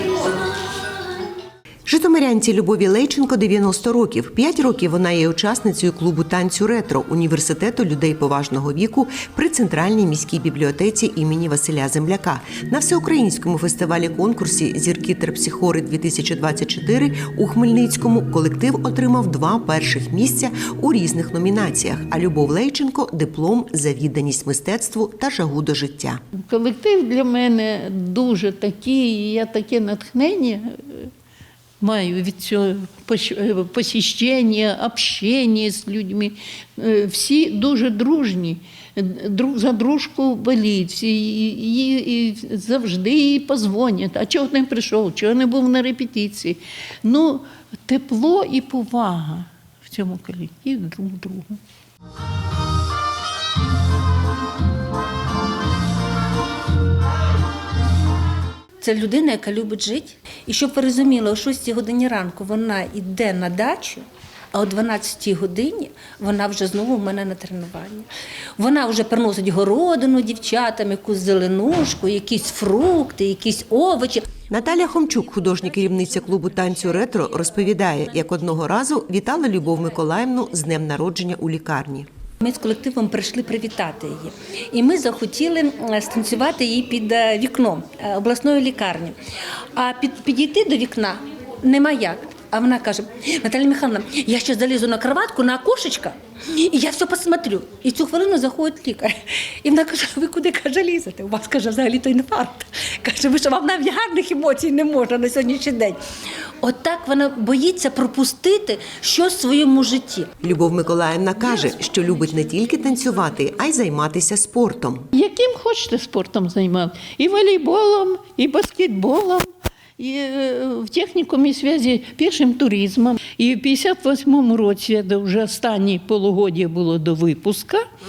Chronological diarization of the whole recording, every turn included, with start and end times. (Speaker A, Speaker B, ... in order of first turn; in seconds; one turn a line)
Speaker A: 1.9-26.2
Speaker B: 26.4-31.1
Speaker B: 31.8-51.6
Speaker C: 58.8-74.3
Speaker A: 74.5-82.1
Speaker C: 82.4-89.2
Speaker C: 89.8-106.0
Speaker C: 106.6-110.3
Speaker A: 110.4-115.1
Speaker B: 115.1-119.5
Speaker B: 120.0-127.8